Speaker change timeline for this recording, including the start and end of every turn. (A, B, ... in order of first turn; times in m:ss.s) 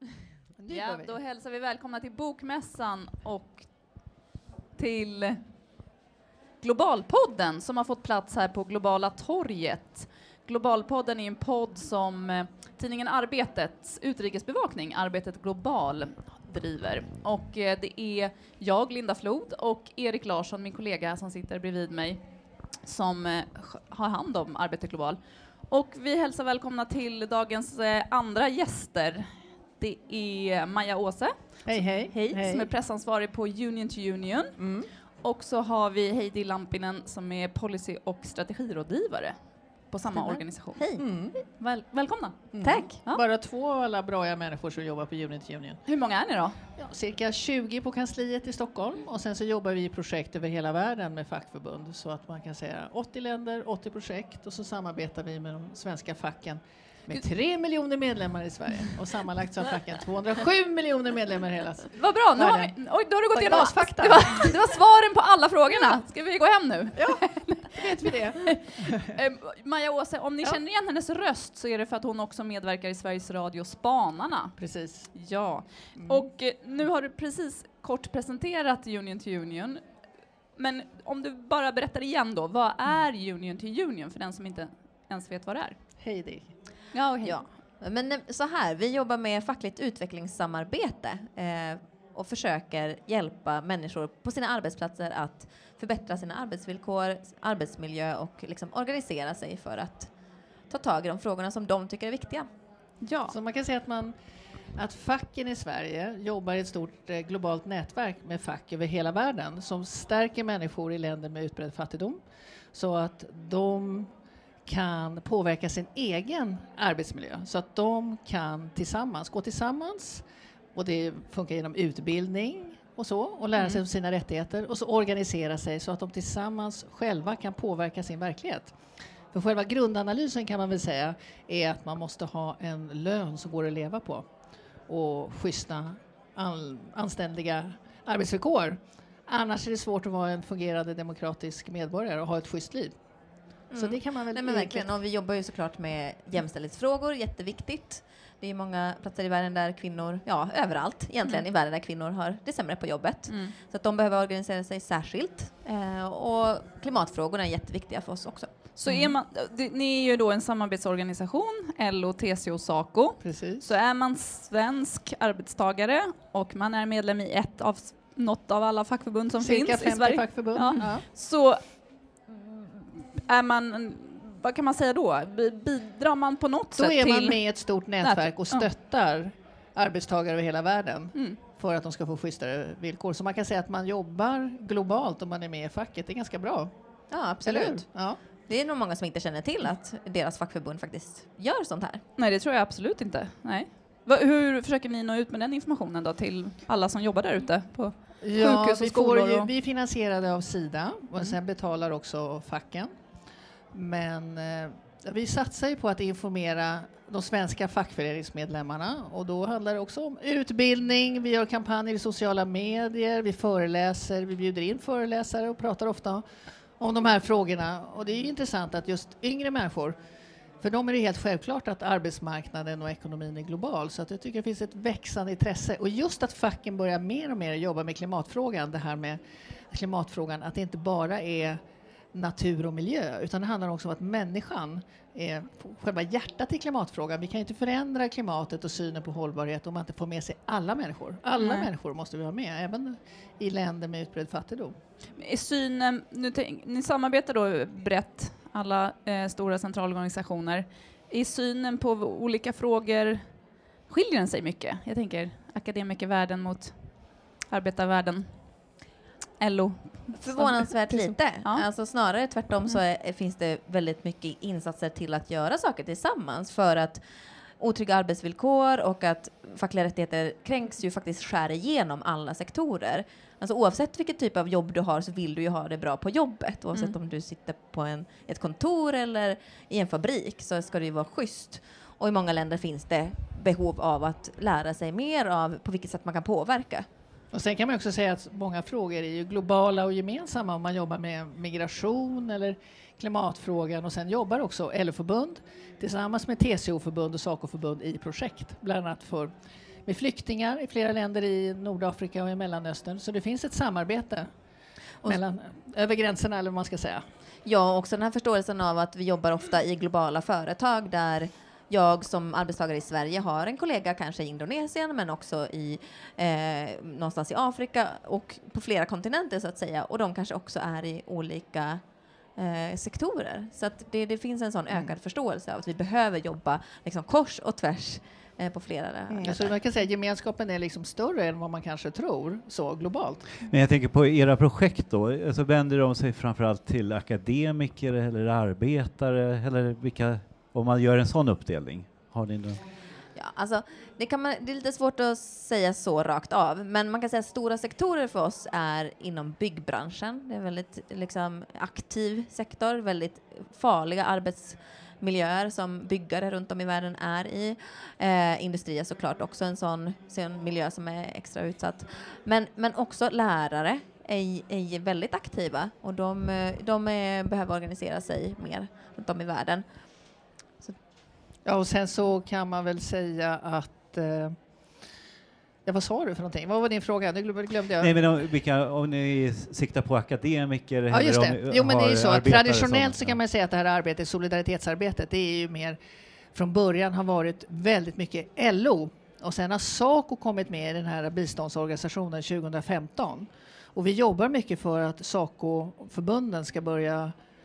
0:00.5-0:01.1 A
0:00.7-0:04.2 B
0:04.8-0:05.4 B
0:06.6-0:43.2 B
0:31.6-0:32.7 A
0:34.6-0:34.9 A
0:40.1-0:41.0 C
0:41.0-0:41.4 A
0:42.5-0:45.8 A
0:42.6-0:42.9 C
0:45.8-0:46.6 B
0:46.8-1:02.7 A
1:01.9-1:07.8 B
1:03.3-1:04.6 A
1:07.0-1:08.8 A
1:08.4-1:14.6 B
1:14.6-1:15.1 A
1:15.1-1:19.8 B
1:15.9-1:16.2 A
1:20.5-1:25.8 B
1:26.0-1:26.5 A
1:26.9-1:27.4 B
1:27.2-1:40.1 C
1:40.7-1:42.5 C
1:43.0-1:43.3 B
1:43.3-1:44.1 A
1:44.7-1:52.2 A
1:52.7-1:54.1 A
1:54.6-2:08.8 A
2:03.6-2:03.8 B
2:09.3-2:14.3 A
2:14.8-2:23.0 A
2:23.7-2:24.9 A
2:23.7-2:38.6 C
2:33.3-2:33.6 B
2:38.8-2:58.7 B
2:38.8-2:39.1 A
2:43.2-2:43.6 A
2:49.4-2:51.0 A
2:56.8-3:06.7 A
3:07.1-3:12.0 C
3:07.4-3:08.2 A
3:12.2-3:19.5 B
3:18.2-3:22.9 A
3:23.7-3:36.2 A
3:36.8-3:40.0 A
3:40.6-3:49.2 A
3:49.7-3:51.6 A
3:52.1-4:04.8 A
4:01.4-4:01.7 B
4:05.2-4:18.8 B
4:19.4-4:21.7 B
4:20.1-4:27.0 C
4:27.6-4:46.9 C
4:47.3-4:59.3 A
4:59.8-5:04.3 A
5:05.0-5:07.0 A
5:07.4-5:21.8 C
5:22.4-5:29.5 C
5:29.1-5:33.3 A
5:33.4-5:42.6 D
5:43.1-6:10.8 C
6:11.4-6:14.4 A
6:15.6-6:17.9 A
6:17.8-6:23.2 D
6:20.9-6:25.8 A
6:26.3-6:37.1 A